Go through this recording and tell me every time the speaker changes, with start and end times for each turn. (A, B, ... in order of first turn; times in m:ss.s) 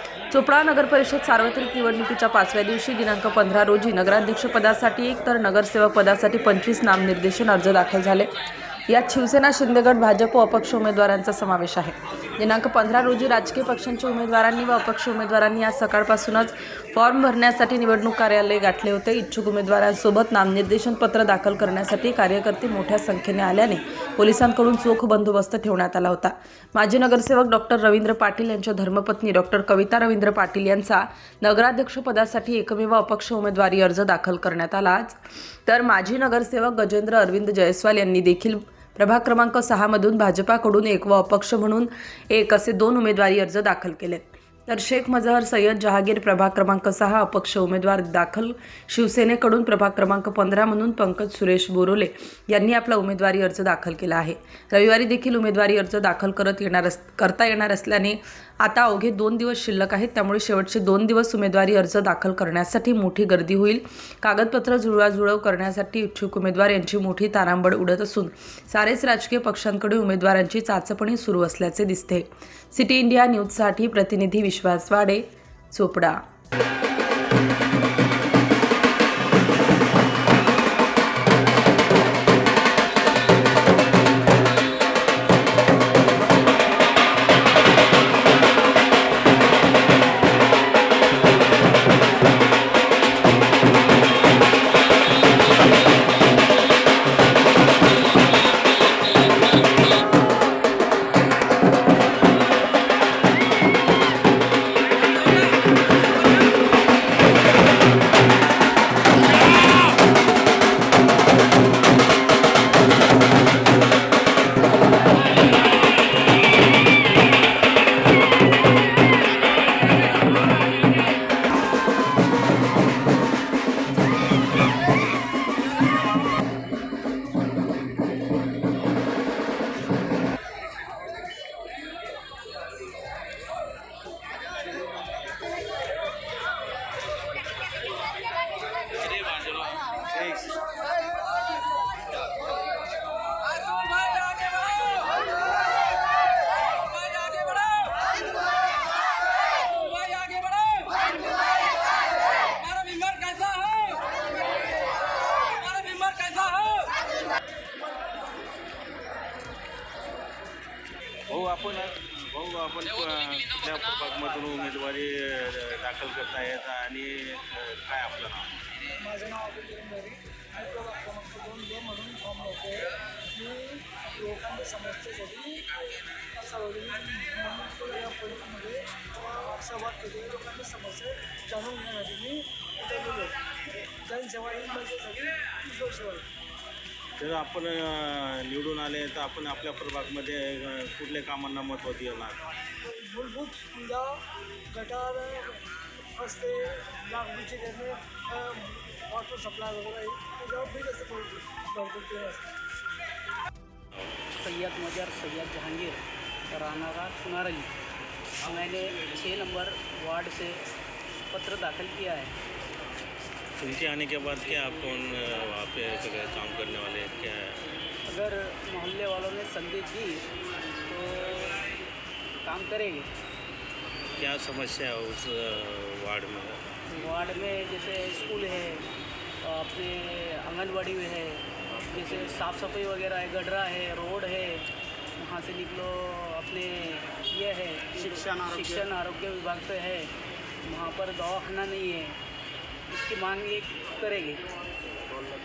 0:00.3-0:08.3 A
0:08.9-1:16.2 A
2:20.2-2:20.5 B
2:27.2-2:27.6 C
2:30.1-2:30.8 C
2:32.9-2:33.9 C
2:41.3-2:48.6 B
2:49.0-2:55.7 D
2:56.4-3:03.4 D
3:04.0-3:06.3 D
3:07.2-3:12.5 B
3:12.8-3:15.6 D
3:16.2-3:22.5 D
3:24.0-3:24.3 B
3:24.4-3:27.7 C
3:28.4-3:30.6 C
3:31.3-3:32.4 C
3:33.6-3:37.7 B
3:38.1-3:40.3 C
3:40.9-3:41.7 C
3:42.4-3:43.1 C
3:44.2-3:46.7 B
3:46.9-3:48.9 C
3:49.4-4:00.1 C
4:00.7-4:02.2 C
4:02.9-4:04.4 C